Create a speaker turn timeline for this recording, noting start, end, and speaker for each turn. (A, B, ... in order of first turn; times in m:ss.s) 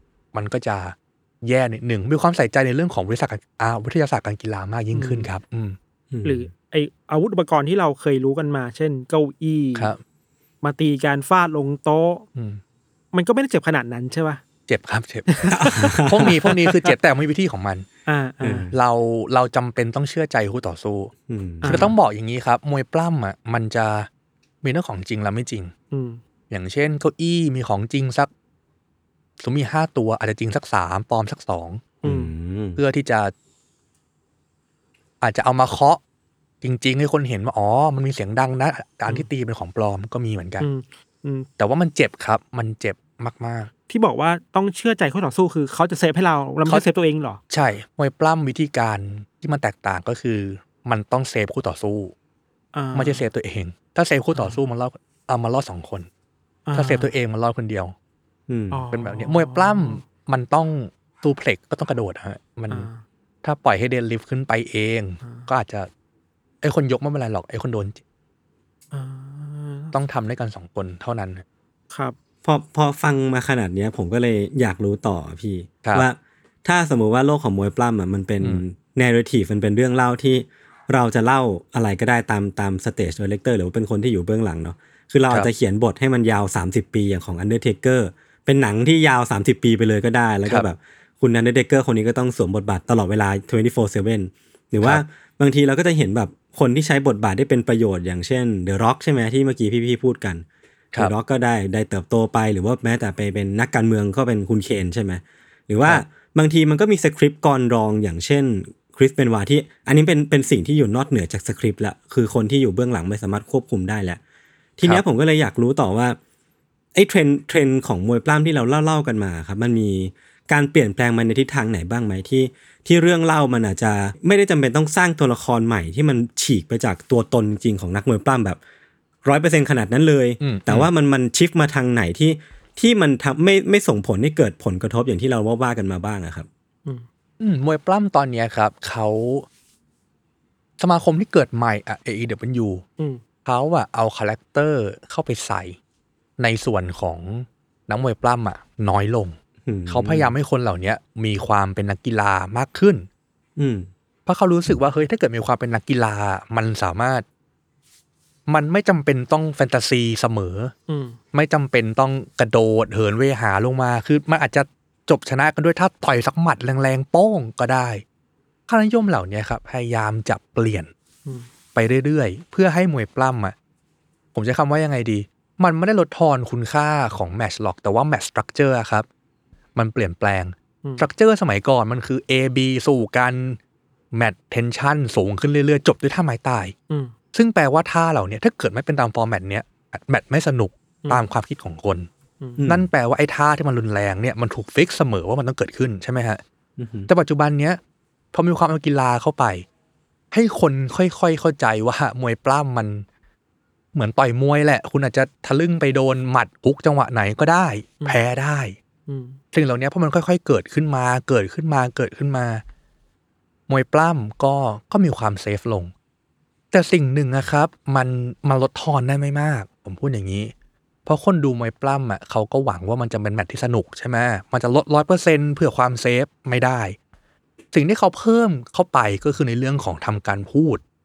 0:00.3-0:05.8 A
0:04.9-0:05.3 B
0:06.1-0:06.5 C
0:06.2-0:09.9 B
0:10.6-0:12.3 B
0:12.4-0:12.6 A
0:13.1-0:14.4 B
0:14.7-0:17.9 A
0:15.3-0:16.9 B
0:15.5-0:16.4 C
0:18.1-0:18.7 B
0:18.4-0:18.7 C
0:18.7-0:21.1 A
0:21.3-0:21.8 C
0:21.6-0:22.0 B
0:21.6-0:24.1 A
0:24.6-0:25.7 A
0:25.9-0:26.2 B
0:26.5-0:28.3 A
0:29.4-0:31.9 A
0:32.0-0:32.8 C
0:32.0-0:32.3 B
0:32.8-0:33.3 A
0:35.2-0:36.0 A
0:36.6-0:40.7 A
0:40.6-0:41.5 B
0:41.6-0:43.7 A
0:43.9-0:47.4 B
0:47.5-0:52.1 A
0:52.7-0:53.2 B
0:52.9-0:56.1 A
0:54.3-0:54.6 B
0:56.7-0:57.1 B
0:56.8-0:58.0 A
0:58.5-0:58.8 C
0:58.7-1:00.0 B
0:58.9-1:02.9 A
1:02.7-1:03.0 B
1:03.4-1:05.9 A
1:05.2-1:05.5 B
1:06.6-1:08.0 A
1:08.9-1:10.0 B
1:09.9-1:11.4 A
1:11.9-1:12.2 B
1:12.4-1:54.2 C
1:54.8-1:56.2 C
1:57.0-2:08.6 C
2:09.2-2:16.5 C
2:10.4-2:10.9 A
2:17.4-2:19.5 A
2:20.8-2:22.8 A
2:23.4-2:25.8 A
2:26.4-2:29.4 A
2:29.7-2:30.4 C
2:29.9-2:33.1 A
2:33.6-2:33.9 C
2:34.3-2:37.2 A
2:38.5-2:40.7 A
2:40.9-2:41.2 B
2:41.3-2:48.0 A
2:48.7-2:50.9 A
2:51.8-2:53.6 A
2:54.3-2:59.1 A
2:59.8-3:03.6 A
3:04.1-3:06.8 A
3:07.3-3:12.1 A
3:12.6-3:12.9 C
3:12.7-3:16.4 A
3:16.8-3:17.1 C
3:17.1-3:17.8 A
3:18.3-3:19.6 A
3:20.3-3:23.1 A
3:23.9-3:28.8 A
3:29.1-3:29.4 B
3:29.5-3:32.6 A
3:33.7-3:35.9 A
3:36.7-3:40.5 A
3:41.1-3:47.0 A
3:47.7-3:50.8 A